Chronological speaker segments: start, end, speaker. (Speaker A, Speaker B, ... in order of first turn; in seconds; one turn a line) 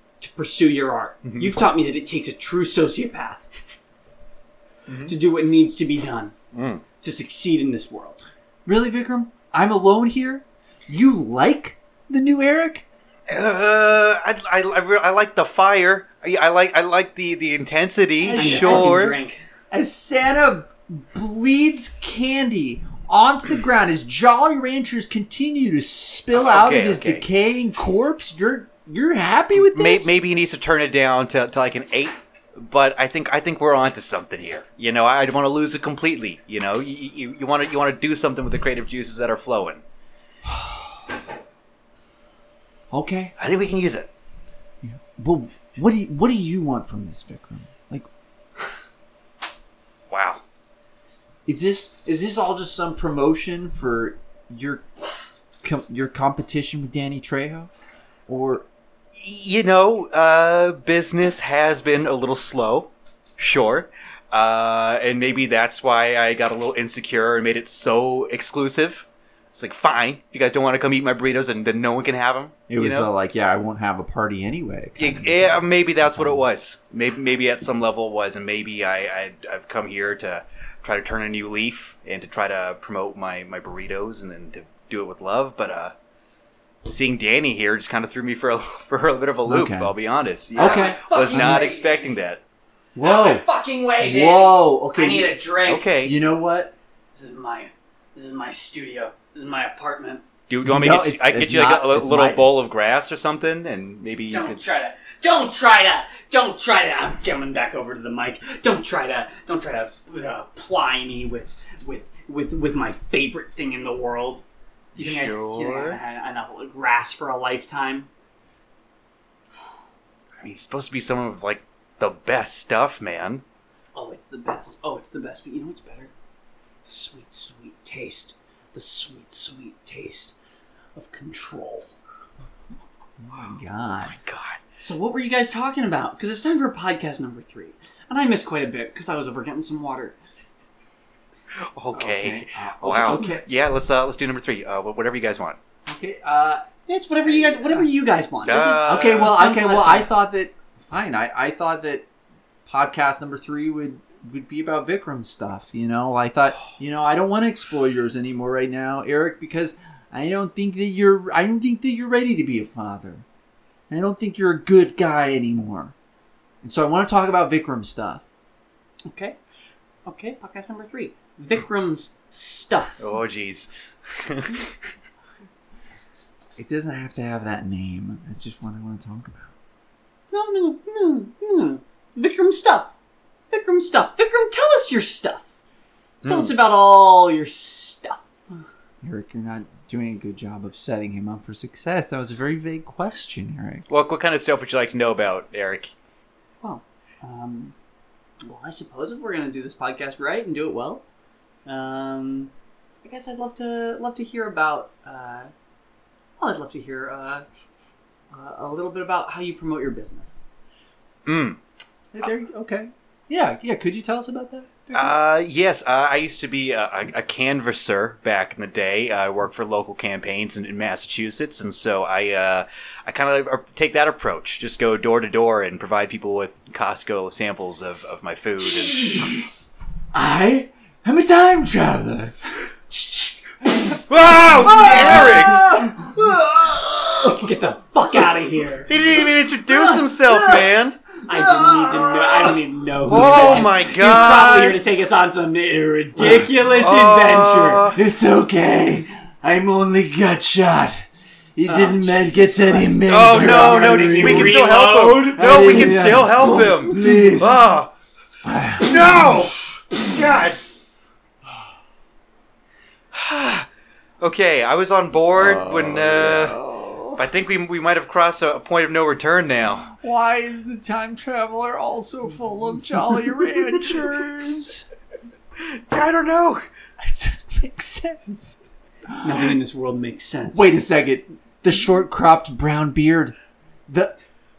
Speaker A: 0.2-3.5
Speaker B: 1.2-1.7
Speaker B: 4.9-5.1
Speaker A: 5.0-6.3
Speaker B: 6.5-6.8
Speaker A: 7.0-8.2
Speaker C: 8.7-12.8
Speaker B: 13.3-19.2
Speaker C: 18.2-19.0
Speaker A: 18.4-19.4
Speaker C: 19.7-30.2
Speaker B: 26.3-27.2
Speaker B: 29.5-39.8
Speaker C: 40.4-41.0
Speaker C: 42.9-43.3
Speaker B: 43.4-44.1
Speaker C: 44.8-48.1
Speaker B: 50.1-50.4
Speaker C: 51.5-54.8
Speaker C: 55.6-57.7
Speaker C: 58.3-58.6
Speaker B: 59.1-73.1
Speaker C: 72.7-75.5
Speaker B: 75.0-85.9
Speaker B: 86.8-92.4
Speaker C: 89.5-89.9
Speaker C: 90.5-91.7
Speaker A: 90.5-92.2
Speaker C: 92.9-93.5
Speaker A: 93.0-95.8
Speaker C: 94.0-95.4
Speaker B: 95.6-96.2
Speaker C: 96.0-96.7
Speaker A: 97.1-100.2
Speaker B: 100.5-104.6
Speaker C: 100.6-102.4
Speaker A: 104.3-114.4
Speaker B: 115.0-116.0
Speaker A: 115.0-118.1
Speaker B: 120.4-123.4
Speaker A: 123.9-126.1
Speaker A: 126.8-130.3
Speaker A: 130.9-131.9
Speaker C: 133.2-134.2
Speaker B: 134.0-134.6
Speaker A: 134.8-140.2
Speaker B: 141.6-145.6
Speaker C: 141.9-143.4
Speaker C: 145.8-146.7
Speaker A: 146.9-150.1
Speaker C: 147.2-147.9
Speaker B: 148.4-149.3
Speaker C: 148.8-152.1
Speaker C: 152.7-163.2
Speaker C: 163.9-165.9
Speaker C: 166.6-168.2
Speaker A: 169.1-169.4
Speaker A: 170.1-173.0
Speaker B: 173.0-174.9
Speaker C: 176.6-179.5
Speaker A: 180.3-182.9
Speaker A: 183.5-185.5
Speaker B: 186.2-186.5
Speaker A: 186.2-188.6
Speaker C: 189.0-193.8
Speaker B: 193.9-195.9
Speaker A: 196.6-197.7
Speaker A: 198.4-201.0
Speaker A: 201.7-202.5
Speaker A: 203.0-205.5
Speaker A: 206.4-207.4
Speaker A: 208.3-210.4
Speaker B: 211.2-211.6
Speaker C: 212.1-215.1
Speaker B: 214.9-229.3
Speaker C: 228.7-229.4
Speaker C: 230.1-237.5
Speaker B: 234.1-235.6
Speaker A: 234.8-235.7
Speaker A: 237.3-239.0
Speaker B: 238.9-241.0
Speaker A: 239.7-240.1
Speaker A: 241.2-247.9
Speaker C: 241.3-242.2
Speaker B: 243.0-244.8
Speaker C: 243.1-243.7
Speaker C: 246.2-246.5
Speaker B: 246.6-248.0
Speaker C: 247.9-257.7
Speaker A: 251.6-257.0
Speaker B: 253.1-257.9
Speaker C: 258.4-259.5
Speaker B: 258.8-260.8
Speaker B: 263.1-263.7
Speaker B: 264.2-266.6
Speaker C: 265.3-267.2
Speaker B: 267.1-269.9
Speaker C: 269.9-274.9
Speaker B: 275.6-276.6
Speaker C: 277.0-279.5
Speaker A: 279.2-280.7
Speaker C: 280.5-283.4
Speaker C: 283.9-284.1